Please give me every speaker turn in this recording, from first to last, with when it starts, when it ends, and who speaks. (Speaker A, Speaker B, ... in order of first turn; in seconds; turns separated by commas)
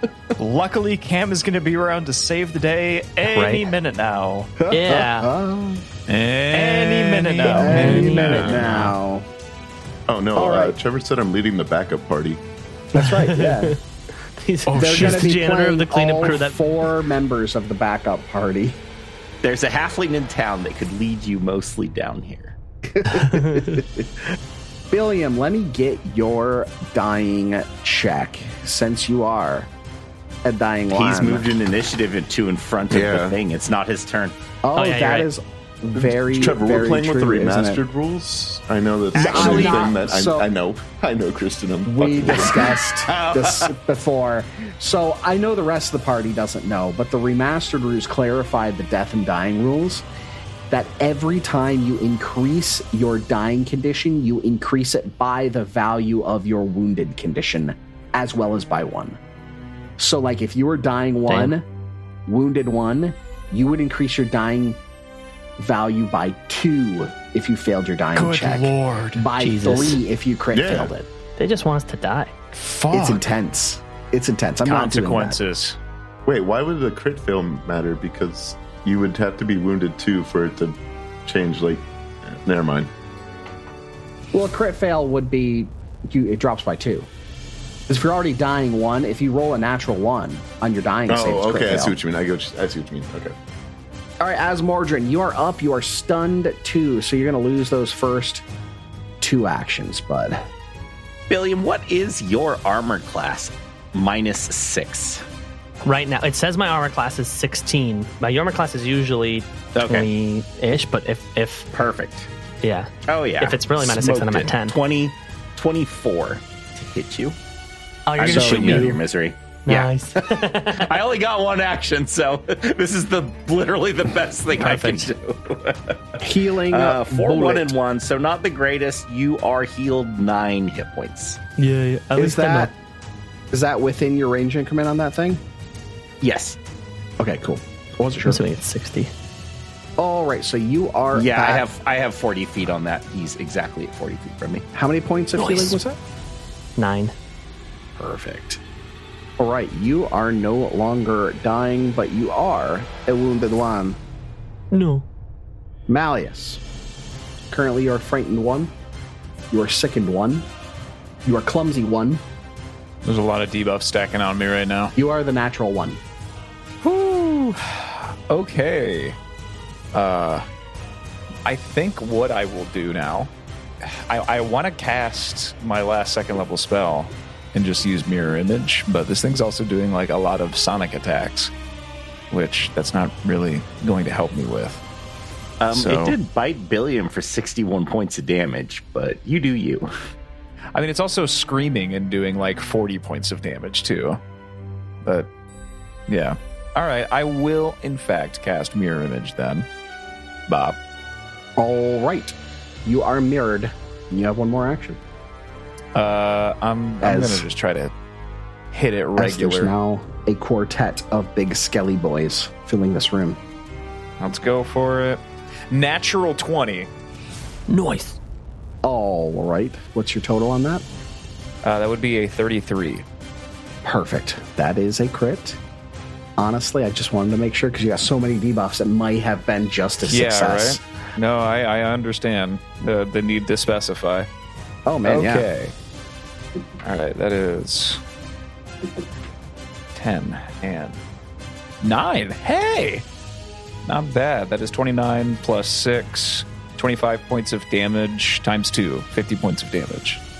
Speaker A: 0.4-4.5, Speaker B: 3.2-3.7, Speaker C: 4.6-5.8, Speaker B: 4.7-5.3, Speaker D: 6.1-8.1, Speaker A: 6.5-8.7, Speaker C: 7.4-9.3, Speaker B: 7.8-8.8, Speaker E: 8.2-8.8, Speaker E: 10.1-12.4, Speaker C: 10.3-10.8, Speaker C: 12.9-13.8, Speaker B: 13.0-13.8, Speaker B: 14.4-16.6, Speaker A: 14.7-15.3, Speaker C: 14.8-18.8, Speaker F: 19.4-22.6, Speaker C: 22.9-24.1, Speaker B: 23.2-23.7, Speaker C: 24.9-29.7, Speaker C: 30.4-31.5, Speaker F: 30.9-34.4, Speaker E: 32.9-33.4, Speaker C: 34.6-37.8, Speaker B: 34.8-35.3, Speaker E: 35.9-42.8, Speaker F: 39.1-39.9, Speaker C: 39.1-40.4, Speaker C: 41.9-50.0, Speaker F: 42.3-43.7, Speaker C: 50.7-59.2, Speaker C: 60.0-61.6, Speaker B: 61.3-61.5, Speaker C: 62.3-64.8, Speaker C: 65.6-71.1, Speaker A: 68.1-69.3, Speaker B: 69.4-70.0, Speaker E: 70.5-70.9, Speaker B: 71.4-72.3, Speaker A: 72.5-73.2, Speaker C: 72.9-75.4, Speaker D: 74.7-75.6, Speaker F: 74.7-75.7, Speaker E: 76.2-82.9, Speaker C: 84.3-87.1, Speaker C: 87.9-91.9, Speaker E: 91.1-93.3, Speaker C: 94.2-98.4, Speaker C: 99.2-100.4, Speaker F: 101.3-105.2, Speaker B: 105.8-111.7, Speaker F: 109.7-110.1, Speaker F: 111.7-112.3, Speaker B: 112.6-114.8, Speaker F: 113.1-117.4, Speaker B: 118.1-119.0, Speaker F: 118.2-131.4, Speaker C: 118.2-119.0, Speaker B: 119.6-120.9, Speaker B: 124.5-125.1, Speaker C: 126.2-127.7, Speaker B: 131.6-132.7, Speaker C: 132.1-132.7, Speaker C: 133.5-135.4, Speaker F: 136.2-136.6, Speaker C: 137.2-138.4, Speaker B: 138.2-139.1, Speaker C: 140.0-141.6, Speaker F: 141.1-144.7, Speaker C: 144.7-145.9, Speaker B: 145.3-145.8, Speaker B: 146.8-147.1, Speaker C: 148.0-148.6, Speaker C: 149.4-154.0, Speaker B: 154.7-155.1, Speaker C: 155.9-156.6, Speaker C: 157.5-158.7, Speaker C: 159.5-160.5, Speaker C: 161.2-162.2, Speaker D: 163.0-164.9, Speaker C: 165.0-166.0, Speaker D: 166.8-169.2, Speaker D: 169.9-170.5, Speaker D: 171.4-173.3, Speaker D: 173.8-181.5, Speaker D: 182.3-184.8, Speaker F: 185.6-189.9, Speaker D: 185.7-186.2, Speaker D: 190.7-194.2, Speaker D: 195.0-195.3, Speaker D: 196.1-199.7, Speaker D: 200.5-200.8, Speaker C: 201.6-205.0, Speaker D: 205.9-207.9, Speaker C: 207.0-207.4, Speaker D: 208.7-209.7, Speaker C: 209.2-213.4, Speaker D: 214.2-216.9, Speaker B: 217.7-218.2, Speaker C: 218.8-220.8, Speaker D: 221.6-223.1, Speaker C: 223.8-225.6, Speaker C: 226.4-230.8, Speaker D: 230.0-234.3, Speaker C: 234.8-235.5, Speaker D: 235.0-235.7, Speaker D: 236.8-238.0, Speaker D: 239.9-241.0, Speaker D: 241.8-243.0, Speaker D: 243.8-250.2